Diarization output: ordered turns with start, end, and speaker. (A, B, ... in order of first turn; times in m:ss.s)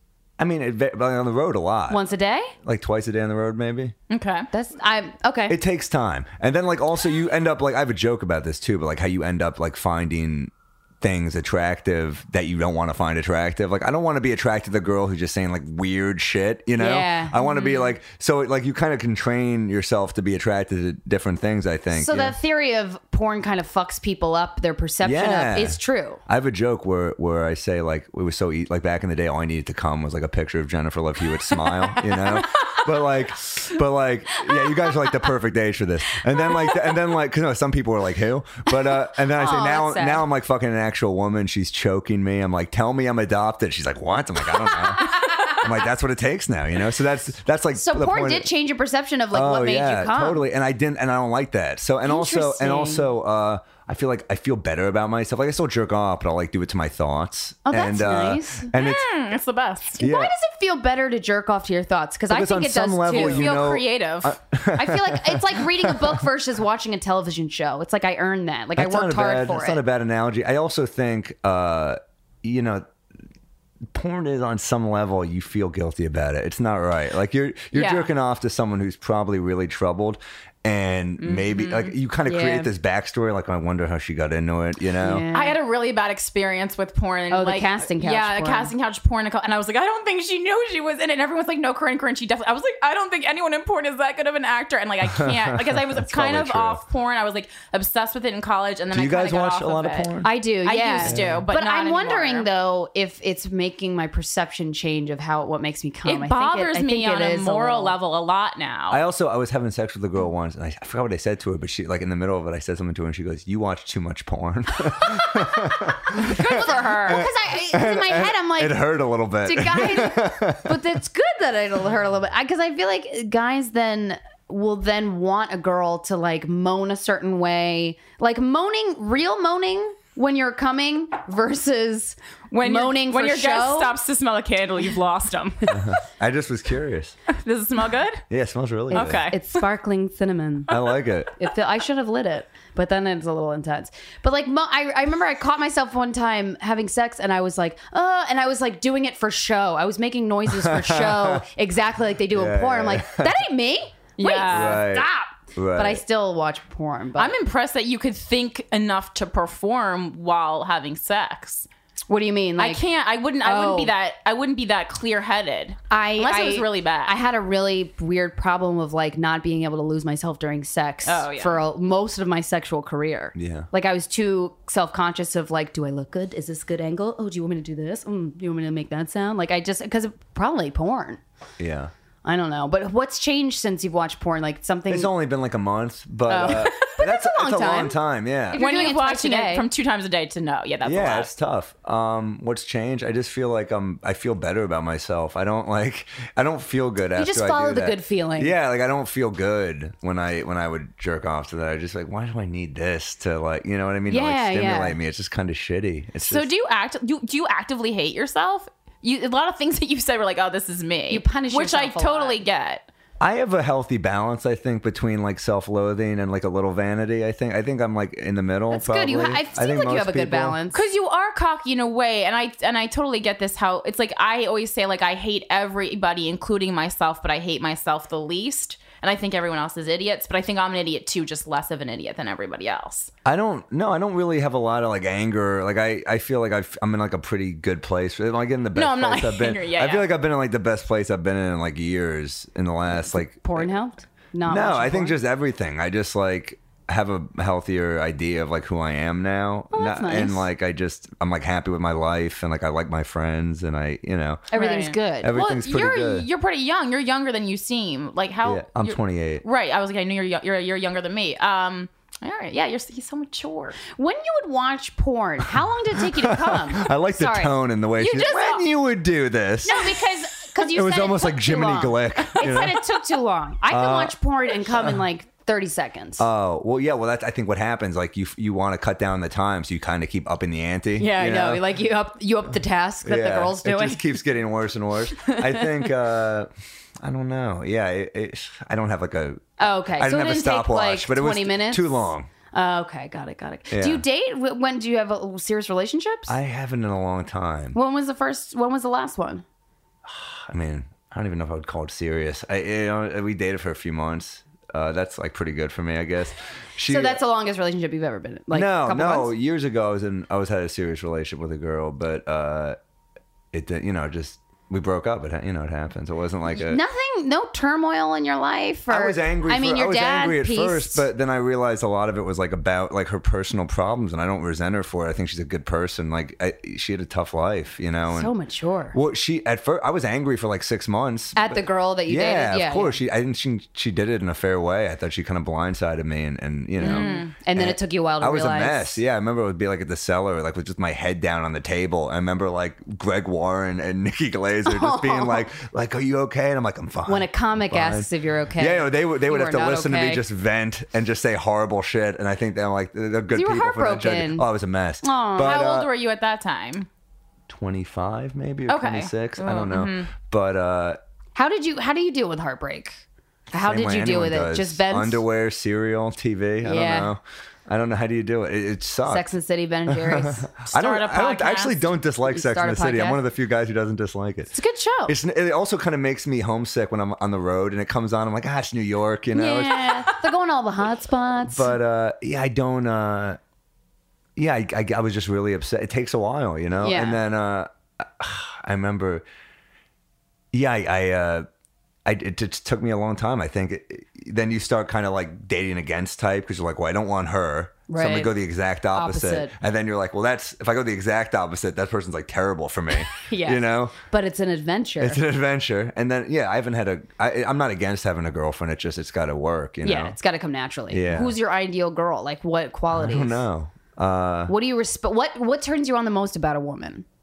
0:00.4-0:02.0 A
0:01.9-0:02.5 B
0:02.6-0:03.9 A
0:04.1-0:04.5 C
0:04.5-0:05.6 B
0:05.5-0:22.4 A
0:16.8-0:17.8 B
0:21.9-0:26.2 B
0:25.0-0:48.5 A
0:32.1-0:32.4 B
0:34.5-0:35.1 B
0:36.5-0:36.9 B
0:39.2-0:40.2 B
0:47.7-0:50.4 B
0:49.3-0:59.1 A
0:52.0-0:53.1 B
0:57.6-0:58.7 B
0:58.7-0:59.9 C
0:59.9-1:03.6 B
1:00.0-1:00.3 A
1:02.3-1:06.2 A
1:03.1-1:04.4 C
1:04.7-1:09.8 B
1:08.8-1:12.9 A
1:13.9-1:25.2 A
1:17.7-1:18.1 B
1:21.2-1:21.9 C
1:22.2-1:22.7 B
1:25.0-1:25.6 B
1:25.3-1:42.4 C
1:27.3-1:28.7 B
1:35.2-1:36.8 A
1:38.9-1:40.3 A
1:40.2-1:47.9 B
1:41.0-1:41.4 A
1:46.0-1:49.0 C
1:48.9-2:00.8 A
1:56.1-1:57.3 C
1:56.1-1:58.8 B
1:59.4-2:14.0 B
2:12.5-2:16.0 C
2:15.7-2:17.2 A
2:17.3-2:18.2 C
2:18.3-2:19.2 A
2:18.9-2:20.8 B
2:18.9-2:19.6 C
2:20.7-2:21.3 A
2:21.3-2:37.3 B
2:30.5-2:31.4 A
2:32.3-2:33.3 A
2:34.2-2:34.8 C
2:34.5-2:36.0 A
2:37.1-2:41.7 C
2:42.1-2:42.8 B
2:42.6-2:47.1 C
2:43.4-2:43.9 B
2:45.9-3:01.2 B
2:51.0-2:51.6 C
2:53.3-2:53.7 A
3:01.6-3:01.9 A
3:02.2-3:05.1 B
3:04.9-3:08.9 A
3:06.3-3:08.0 B
3:06.5-3:06.8 C
3:08.5-3:09.6 B
3:08.5-3:11.3 C
3:10.8-3:26.5 A
3:17.2-3:18.5 B
3:24.1-3:25.0 B
3:26.2-3:32.9 C
3:31.1-3:32.4 B
3:33.2-3:40.6 A
3:38.7-3:40.8 B
3:40.7-3:53.1 C
3:53.2-4:03.6 A
3:58.7-4:00.1 C
4:02.9-4:05.2 B
4:04.5-4:14.5 A
4:09.7-4:10.5 B
4:14.5-4:15.3 B
4:14.5-4:23.8 C
4:15.2-4:16.3 A
4:18.4-4:19.4 A
4:23.9-4:27.5 B
4:26.1-4:32.8 A
4:28.0-4:28.6 C
4:29.6-4:36.2 B
4:33.7-4:34.1 A
4:36.2-4:41.6 A
4:41.0-4:44.0 B
4:43.0-4:46.5 A
4:45.2-4:45.9 B
4:47.0-4:52.3 A
4:49.6-4:56.4 B
4:53.7-4:54.0 A
4:56.3-4:57.8 A
4:57.7-4:59.4 B
5:00.0-5:07.2 A
5:06.9-5:09.3 B
5:08.5-5:12.8 A
5:13.5-5:16.8 A
5:16.5-5:21.0 B
5:18.9-5:28.3 A
5:28.1-5:29.0 B
5:28.9-5:55.9 A
5:31.4-5:33.0 B
5:36.8-5:39.0 B
5:36.8-5:37.3 C
5:44.6-5:45.5 B
5:47.0-5:50.2 B
5:53.3-5:54.5 B
5:55.0-5:55.7 B
5:55.4-5:56.9 C
5:57.5-6:01.0 A
5:58.7-6:00.1 C
6:01.3-6:03.0 B
6:03.5-6:05.2 B
6:03.6-6:09.3 A
6:06.6-6:07.1 B
6:09.0-6:10.5 B
6:09.9-6:14.5 A
6:10.7-6:11.9 C
6:12.3-6:13.2 B
6:14.5-6:15.1 B
6:15.0-6:20.1 A
6:19.3-6:21.7 B
6:21.5-6:23.4 A
6:24.4-6:29.2 A
6:26.8-6:27.2 B
6:30.5-6:31.5 A
6:32.0-6:44.0 A
6:37.9-6:38.3 B
6:38.9-6:39.5 B
6:43.1-6:45.2 B
6:45.0-6:50.2 A
6:49.8-6:53.4 B
6:50.9-6:51.4 A
6:52.9-6:54.5 A
6:54.5-6:57.0 B